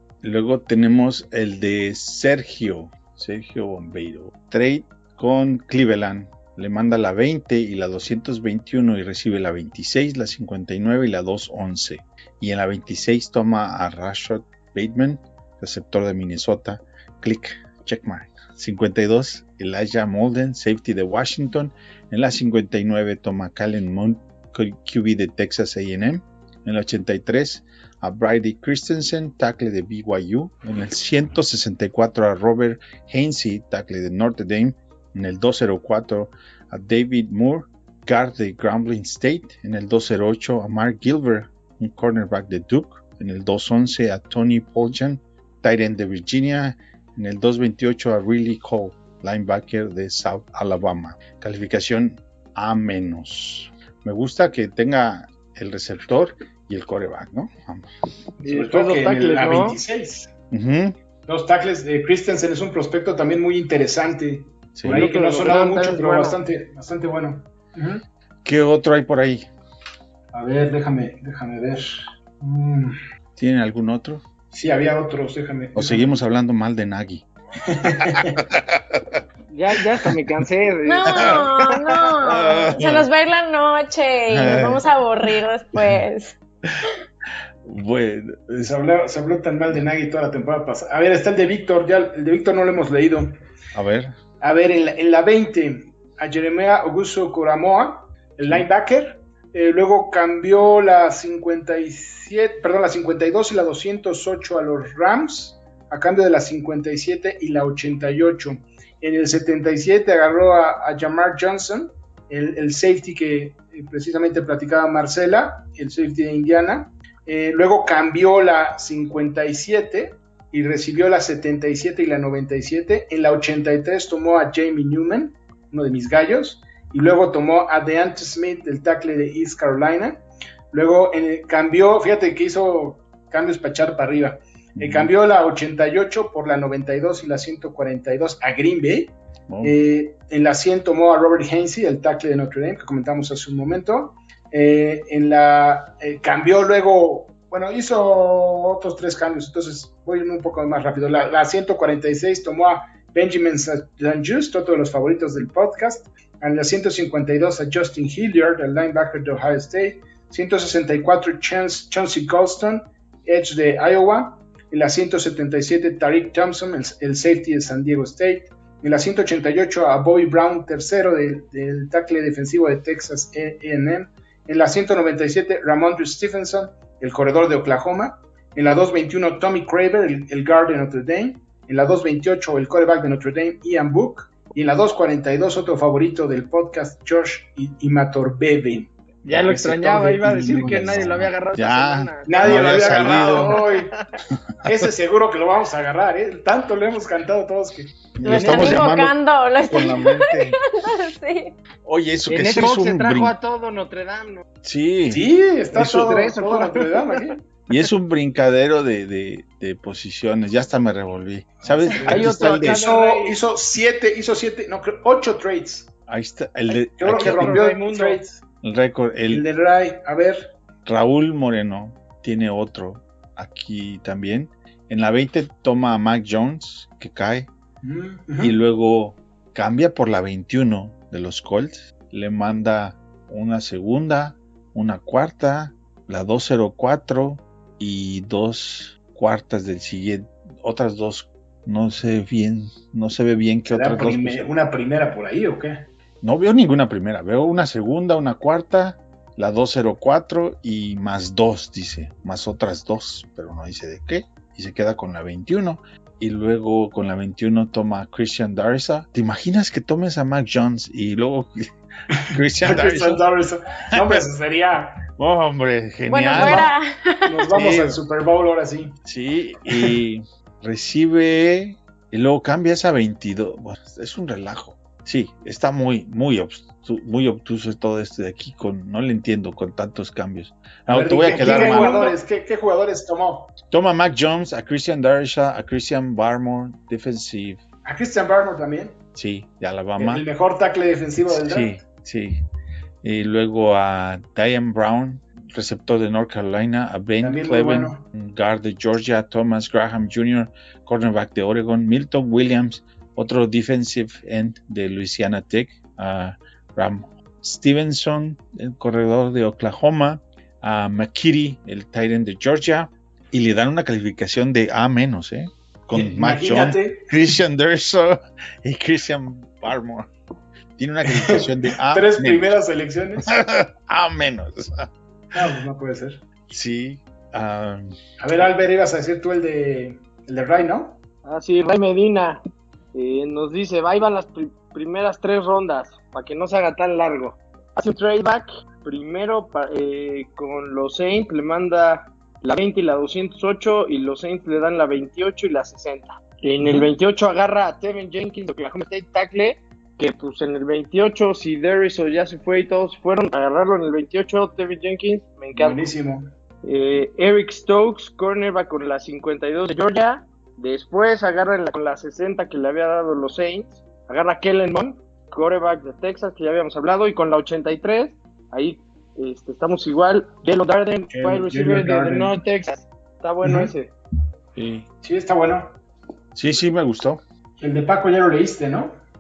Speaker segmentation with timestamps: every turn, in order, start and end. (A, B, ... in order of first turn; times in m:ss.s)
0:00.2-0:57.9 A
0:58.4-1:00.3 B
0:58.4-0:59.8 C
1:00.5-1:01.0 A
1:01.3-1:08.0 B
1:04.8-1:05.1 A
1:04.8-1:06.4 C
1:08.4-1:09.5 A
1:10.3-1:13.0 B
1:13.4-1:14.2 A
1:14.5-1:16.1 B
1:15.8-1:17.2 A
1:17.7-1:18.4 B
1:18.2-1:19.2 A
1:19.5-1:21.5 C
1:19.7-1:20.1 A
1:20.9-1:26.4 D
1:21.1-1:23.1 A
1:24.3-1:24.9 A
1:27.6-1:28.8 A
1:28.6-1:33.4 B
1:33.8-1:34.2 A
1:34.4-3:11.1 B
2:14.8-2:15.1 A
2:19.5-2:19.8 A
3:09.2-3:14.0 C
3:10.5-3:13.6 A
3:12.3-3:13.9 B
3:14.6-3:18.8 B
3:18.2-3:19.2 A
3:18.2-3:21.5 D
3:19.7-3:20.6 A
3:21.8-3:23.4 A
3:22.3-3:24.4 C
3:24.6-3:25.2 A
3:25.1-3:27.4 B
3:25.8-3:26.1 A
3:25.8-3:27.2 C
3:27.7-3:32.8 A
3:31.7-3:35.9 B
3:32.0-3:33.4 C
3:36.1-3:37.6 A
3:37.0-3:38.4 B
3:37.1-3:38.2 C
3:38.6-3:39.4 A
3:39.3-3:40.5 B
3:40.8-3:47.5 A
3:47.8-3:48.6 B
3:48.4-4:04.5 A
4:03.7-4:05.9 B
4:06.2-4:21.7 A
4:22.2-4:25.0 B
4:22.3-4:23.3 A
4:24.0-4:24.2 A
4:25.2-4:26.7 A
4:26.1-4:27.6 D
4:26.3-4:26.7 B
4:27.3-4:29.0 B
4:27.5-4:28.0 A
4:29.0-4:42.2 A
4:40.9-4:43.6 B
4:41.4-4:41.7 C
4:43.7-4:47.6 A
4:47.8-4:49.0 B
4:49.2-4:50.2 A
4:50.0-4:51.8 B
4:51.3-4:52.4 A
4:53.0-5:20.1 A
4:57.2-4:58.0 B
5:15.9-5:17.1 B
5:20.8-5:22.6 A
5:21.1-5:23.3 B
5:23.2-5:24.9 A
5:25.3-5:26.2 B
5:26.5-5:28.0 A
5:28.2-5:31.0 B
5:31.2-5:32.4 C
5:32.9-5:55.8 C
5:46.6-5:46.9 B
5:55.6-5:56.3 B
5:56.6-6:13.9 C
6:11.1-6:12.4 B
6:13.4-6:13.7 B
6:14.6-6:14.9 A
6:15.0-6:15.8 B
6:16.4-6:17.2 A
6:17.6-6:19.0 B